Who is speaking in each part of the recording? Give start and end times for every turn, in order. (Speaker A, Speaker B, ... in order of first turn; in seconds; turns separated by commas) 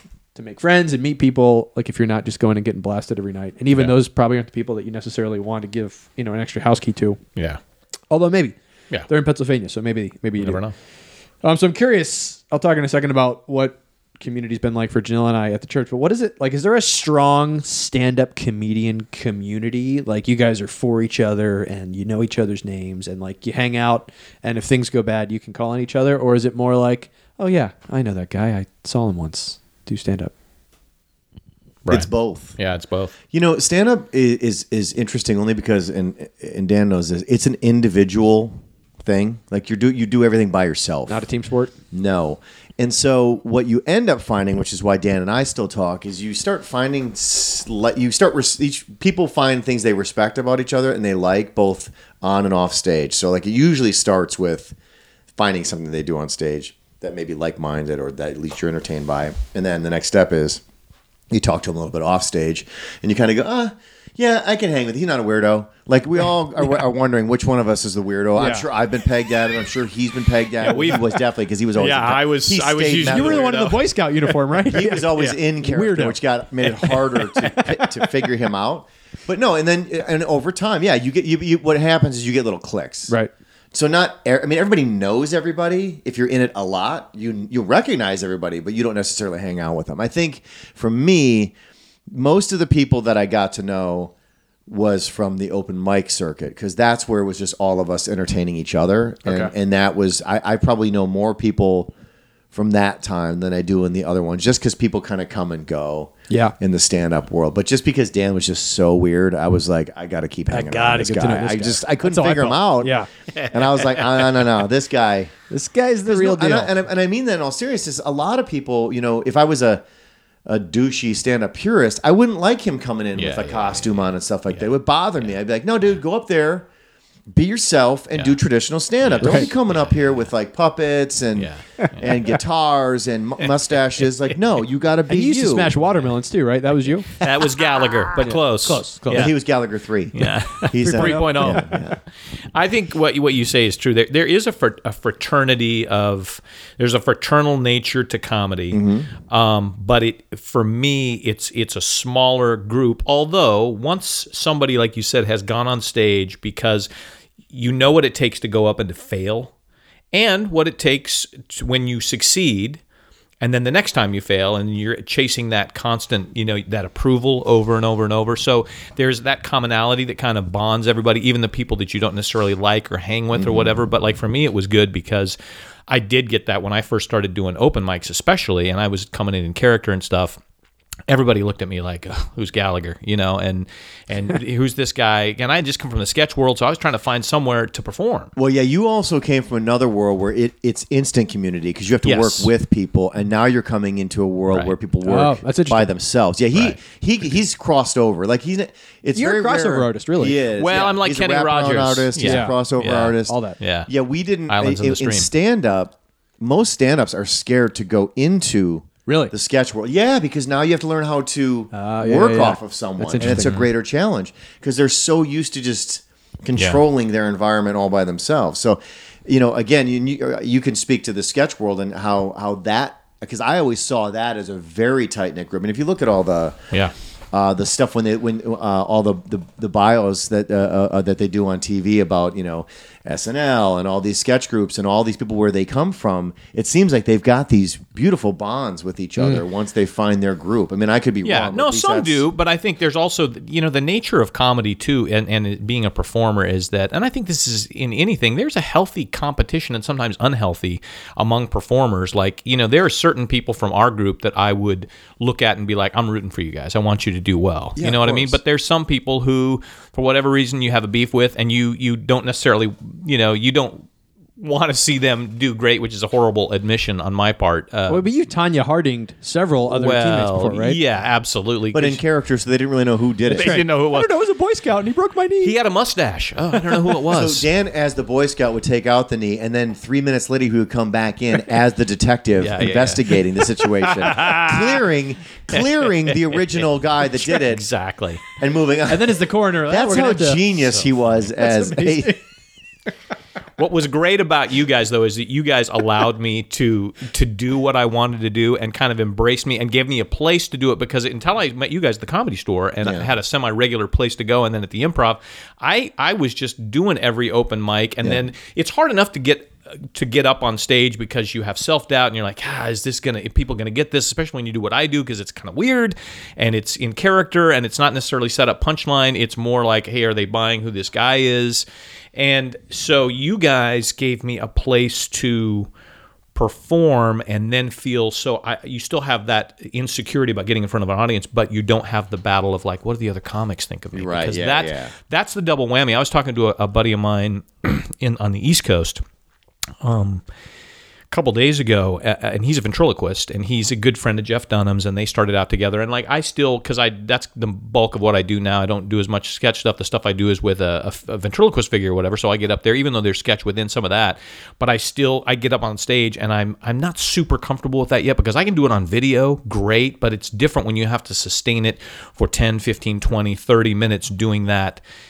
Speaker A: 0.3-7.2, Speaker A: 8.1-8.6, Speaker A: 9.1-10.6, Speaker B: 10.4-10.7, Speaker A: 11.4-30.3, Speaker B: 31.9-33.1, Speaker C: 31.9-32.6, Speaker C: 33.3-41.2, Speaker A: 41.1-41.7, Speaker C: 41.9-54.8, Speaker C: 55.4-60.6, Speaker C: 61.3-73.6, Speaker A: 68.4-68.7, Speaker B: 70.6-74.3, Speaker A: 73.0-76.2, Speaker C: 74.7-83.1, Speaker B: 76.7-77.5, Speaker C: 83.7-91.5, Speaker C: 92.1-94.1, Speaker C: 94.7-101.9, Speaker A: 99.2-99.5, Speaker C: 102.5-115.3, Speaker A: 106.3-106.5, Speaker A: 110.5-113.1, Speaker B: 113.3-114.4, Speaker A: 115.5-116.8, Speaker C: 116.0-119.8, Speaker C: 120.5-126.7, Speaker B: 123.2-124.7, Speaker C: 127.3-135.7, Speaker B: 129.0-130.1, Speaker A: 129.2-129.5, Speaker B: 131.4-132.2, Speaker A: 135.1-137.2, Speaker B: 137.2-139.3, Speaker A: 138.2-139.3, Speaker C: 139.1-142.0, Speaker B: 140.2-141.9, Speaker A: 140.8-141.8, Speaker B: 142.5-156.9, Speaker C: 148.7-149.1, Speaker B: 157.5-159.5, Speaker B: 160.1-162.8, Speaker B: 163.4-175.4, Speaker C: 173.3-173.8, Speaker B: 175.9-180.4, Speaker B: 181.1-188.3, Speaker C: 188.4-203.4, Speaker B: 192.1-192.5, Speaker A: 195.1-195.9, Speaker A: 199.2-200.4, Speaker B: 200.6-203.9, Speaker A: 202.2-202.6, Speaker A: 203.3-203.6, Speaker C: 203.9-226.6, Speaker B: 204.5-205.3, Speaker A: 209.1-209.3, Speaker A: 211.7-213.6, Speaker B: 213.2-213.7, Speaker C: 227.3-242.2, Speaker B: 241.2-263.9, Speaker C: 257.8-258.4, Speaker B: 264.4-268.1, Speaker A: 267.9-270.8, Speaker B: 269.7-272.0, Speaker C: 271.7-273.6, Speaker B: 273.3-274.1, Speaker A: 273.3-275.6, Speaker B: 275.4-277.5, Speaker C: 277.1-287.7, Speaker B: 282.4-284.8, Speaker B: 285.5-288.2, Speaker C: 288.4-292.2, Speaker A: 288.9-290.5, Speaker A: 291.4-292.2, Speaker B: 293.6-325.7, Speaker C: 302.8-303.1, Speaker B: 326.4-339.0, Speaker C: 333.9-334.9, Speaker B: 339.8-340.2, Speaker B: 341.1-364.8